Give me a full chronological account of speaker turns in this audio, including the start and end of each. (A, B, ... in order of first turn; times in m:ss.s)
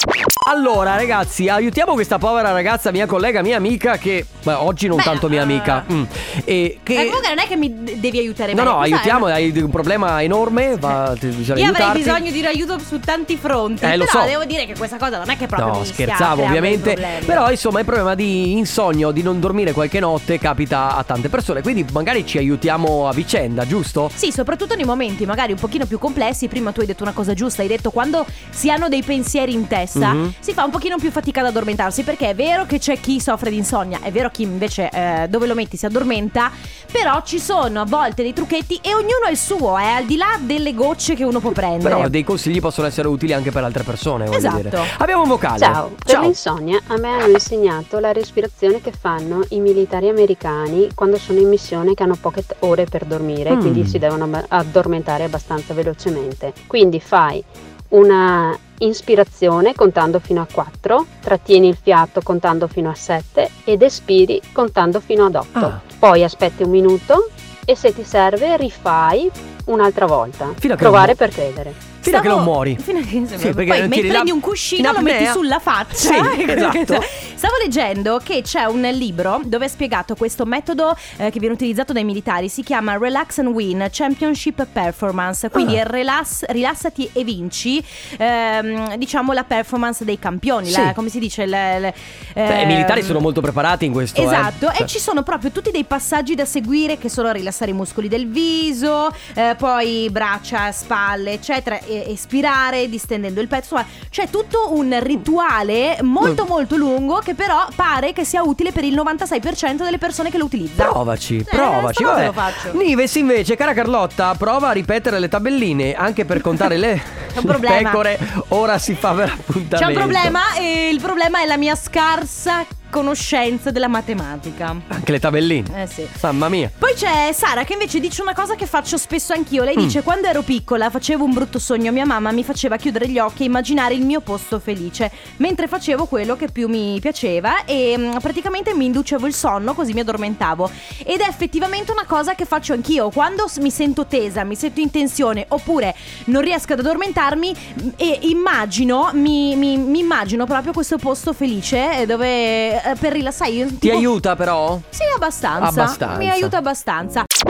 0:00.4-0:07.2 A
0:04.9-0:05.9 B
0:06.9-0:09.3 B
0:08.5-0:12.2 A
0:11.5-0:17.4 B
0:13.8-0:14.3 A
0:15.6-0:24.1 A
0:24.2-0:42.1 B
0:30.0-0:30.3 A
0:41.8-0:46.3 A
0:44.3-0:44.9 B
0:45.6-1:11.8 C
0:53.5-0:54.0 A
1:10.6-1:11.2 A
1:12.0-1:12.8 A
1:12.0-1:33.2 B
1:13.4-1:17.0 A
1:30.6-1:30.9 A
1:32.5-1:34.9 A
1:34.1-1:50.9 B
1:50.8-2:00.4 A
1:51.5-1:52.8 B
1:57.3-1:58.0 B
1:59.7-2:04.8 B
2:04.9-2:06.7 A
2:05.7-2:06.2 B
2:06.8-2:34.1 B
2:33.8-2:34.8 A
2:34.9-2:37.2 B
2:35.6-2:36.5 A